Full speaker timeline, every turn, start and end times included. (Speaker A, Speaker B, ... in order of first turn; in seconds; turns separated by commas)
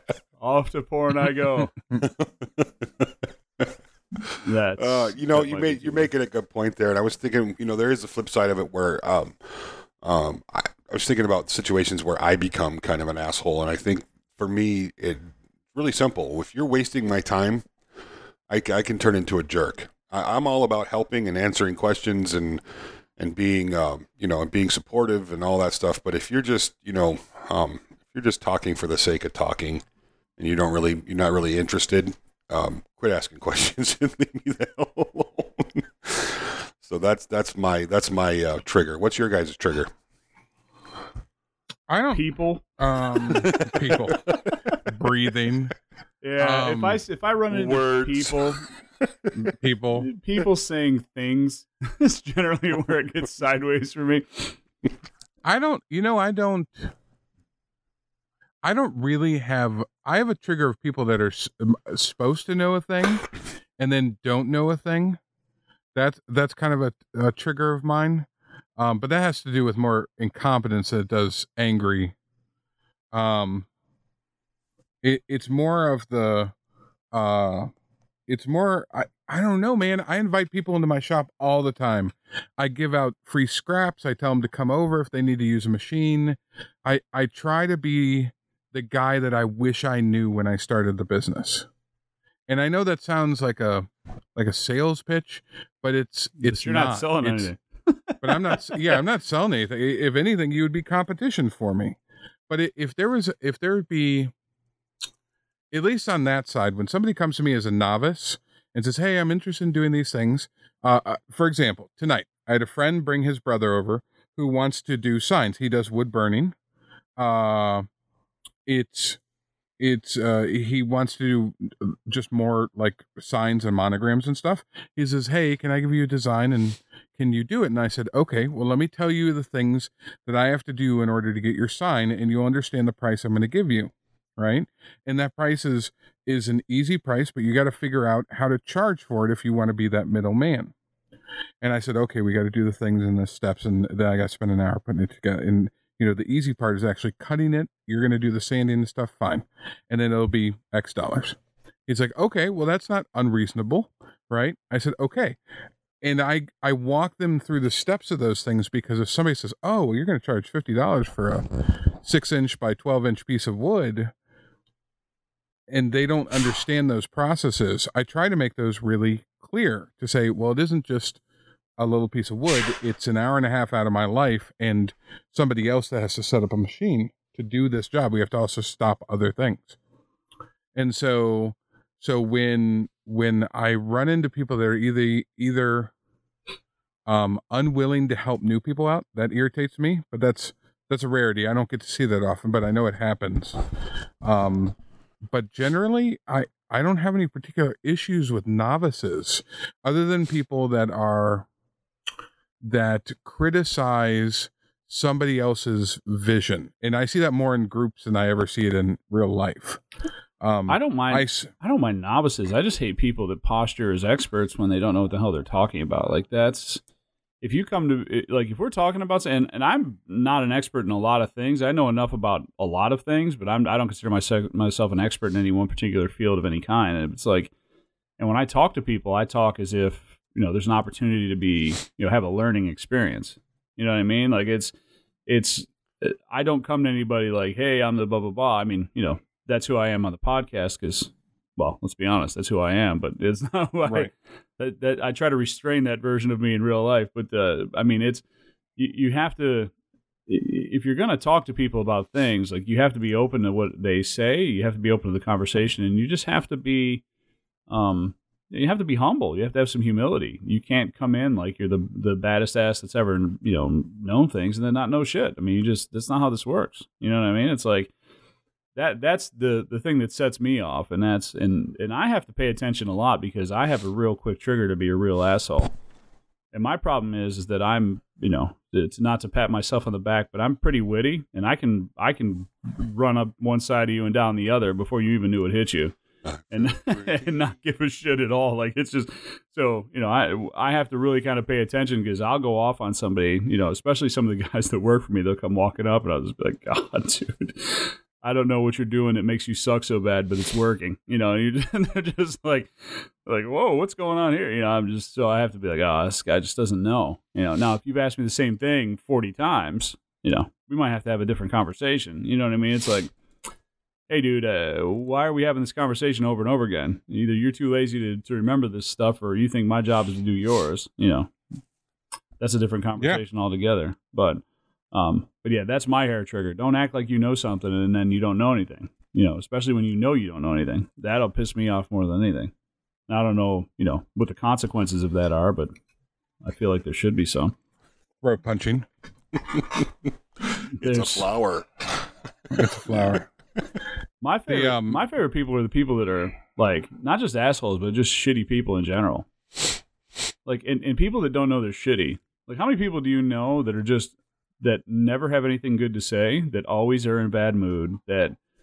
Speaker A: 0.4-1.8, Speaker B: 2.0-2.8, Speaker A: 4.4-6.1, Speaker B: 4.8-17.6, Speaker B: 18.5-22.6, Speaker B: 23.2-29.8, Speaker B: 30.4-39.9, Speaker C: 41.9-42.2, Speaker A: 42.1-42.6, Speaker C: 42.8-44.2, Speaker A: 43.3-43.7, Speaker B: 43.3-44.6, Speaker C: 44.9-45.8, Speaker A: 46.2-48.7, Speaker C: 46.4-47.0, Speaker B: 47.5-48.6, Speaker C: 49.4-50.1, Speaker A: 50.0-54.6, Speaker C: 55.5-56.9, Speaker C: 58.6-65.2, Speaker C: 66.0-68.3, Speaker C: 68.8-72.2, Speaker C: 73.1-73.7, Speaker C: 75.0-76.5, Speaker C: 77.1-77.7, Speaker C: 78.3-91.7, Speaker C: 92.5-97.5, Speaker A: 96.4-99.0, Speaker C: 98.2-102.0, Speaker C: 102.5-104.3, Speaker C: 105.7-116.5, Speaker C: 117.2-117.9, Speaker C: 118.7-119.2, Speaker C: 119.8-140.7, Speaker C: 141.6-155.4, Speaker C: 156.0-164.1, Speaker C: 165.7-171.2, Speaker C: 171.8-179.8, Speaker C: 180.8-185.9, Speaker C: 187.1-193.6, Speaker C: 194.2-194.8, Speaker C: 195.3-201.5, Speaker C: 202.6-209.8, Speaker C: 210.4-211.5, Speaker A: 210.7-216.8, Speaker A: 217.4-227.5, Speaker A: 228.2-234.7, Speaker A: 235.3-248.2, Speaker A: 248.8-249.7, Speaker A: 250.3-257.0, Speaker A: 257.7-267.9, Speaker A: 268.8-275.7, Speaker A: 276.5-286.0, Speaker B: 286.3-287.3, Speaker A: 286.5-313.1, Speaker A: 314.1-321.3, Speaker A: 322.4-332.5, Speaker A: 333.1-335.7, Speaker A: 336.4-337.6, Speaker C: 338.2-338.9, Speaker B: 340.8-343.2, Speaker A: 340.8-341.3, Speaker C: 342.5-343.3, Speaker A: 344.2-349.3, Speaker C: 344.5-345.0, Speaker A: 350.5-358.4